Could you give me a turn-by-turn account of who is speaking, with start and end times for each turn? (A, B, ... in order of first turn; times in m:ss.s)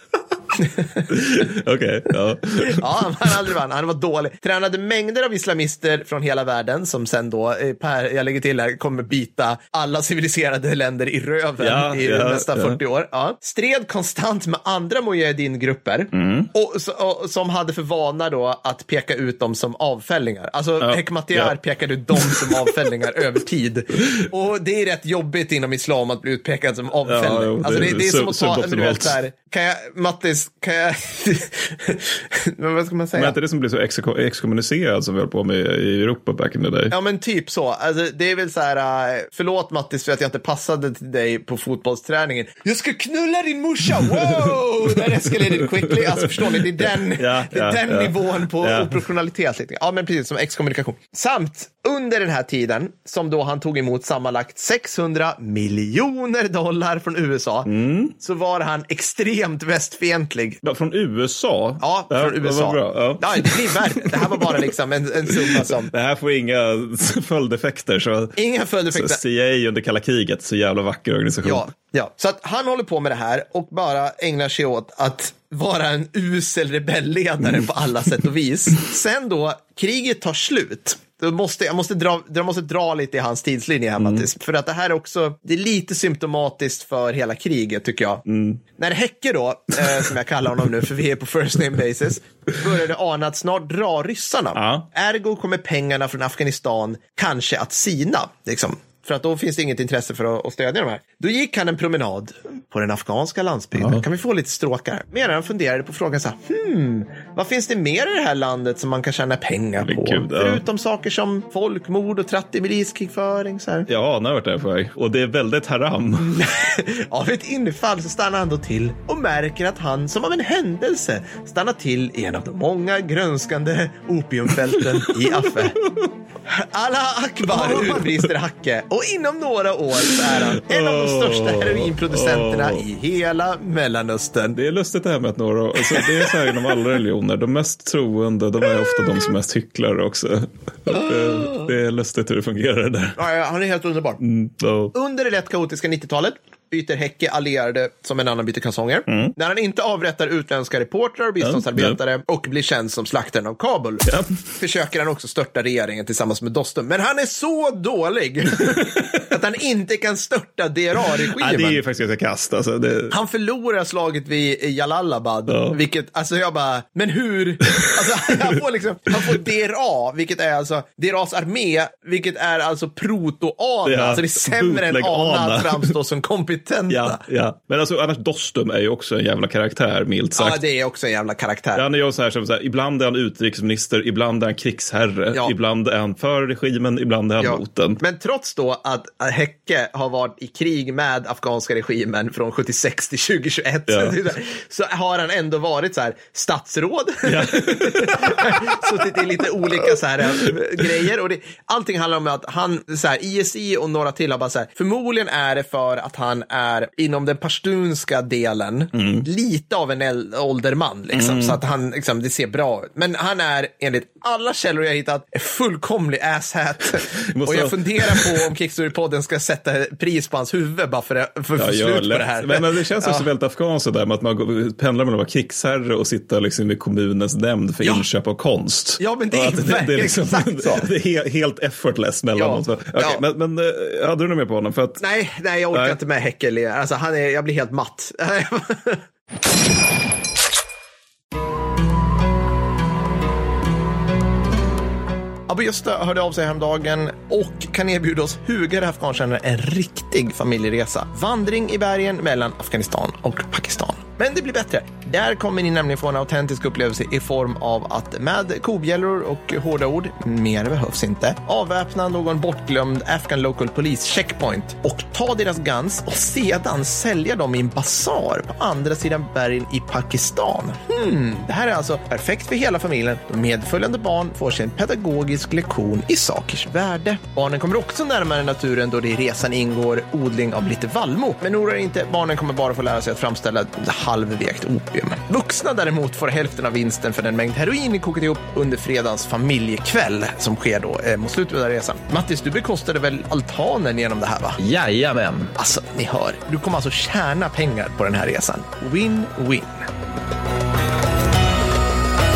0:01.1-0:03.3 A
0:02.6-0:33.4 B
0:11.6-0:12.8 A
0:16.1-0:16.5 A
0:20.8-0:21.5 A
0:22.1-0:22.8 A
0:27.0-0:29.2 A
0:33.1-0:36.9 A
0:36.9-1:00.6 B
0:44.1-0:44.4 A
0:45.5-0:46.2 A
0:47.2-0:49.0 A
0:57.6-0:58.1 A
1:00.6-1:04.7 A
1:01.8-1:05.9 B
1:05.3-1:08.4 A
1:08.4-1:09.2 B
1:08.9-1:11.6 A
1:11.4-1:28.2 B
1:24.0-1:24.2 A
1:28.2-1:28.6 A
1:28.8-1:53.9 B
1:34.5-1:34.9 A
1:43.8-1:44.0 A
1:49.8-1:50.6 A
1:53.9-1:56.4 A
1:56.2-2:05.8 B
2:05.0-2:06.0 A
2:06.4-2:14.6 B
2:07.5-2:08.2 A
2:10.2-2:12.8 A
2:14.5-2:23.2 A
2:21.3-2:21.7 B
2:23.2-2:24.2 B
2:24.2-2:24.9 A
2:24.9-2:41.8 B
2:29.1-2:29.3 A
2:31.4-2:32.0 A
2:41.3-2:43.2 A
2:43.1-2:57.2 B
2:45.5-2:45.8 A
2:47.8-2:48.3 A
2:53.8-2:55.9 A
2:56.9-3:00.6 A
3:00.4-3:01.8 B
3:01.7-3:08.0 A
3:07.4-3:43.3 B
3:13.9-3:14.2 A
3:17.2-3:20.8 A
3:28.9-3:29.2 A
3:31.1-3:31.6 A
3:37.3-3:38.3 A
3:41.6-3:55.0 A
3:49.0-3:50.9 B
3:52.4-3:53.2 B
3:55.0-3:59.0 B
3:55.7-3:56.0 A
4:05.5-4:54.6 B
4:54.6-4:55.5 A
4:55.6-4:59.8 B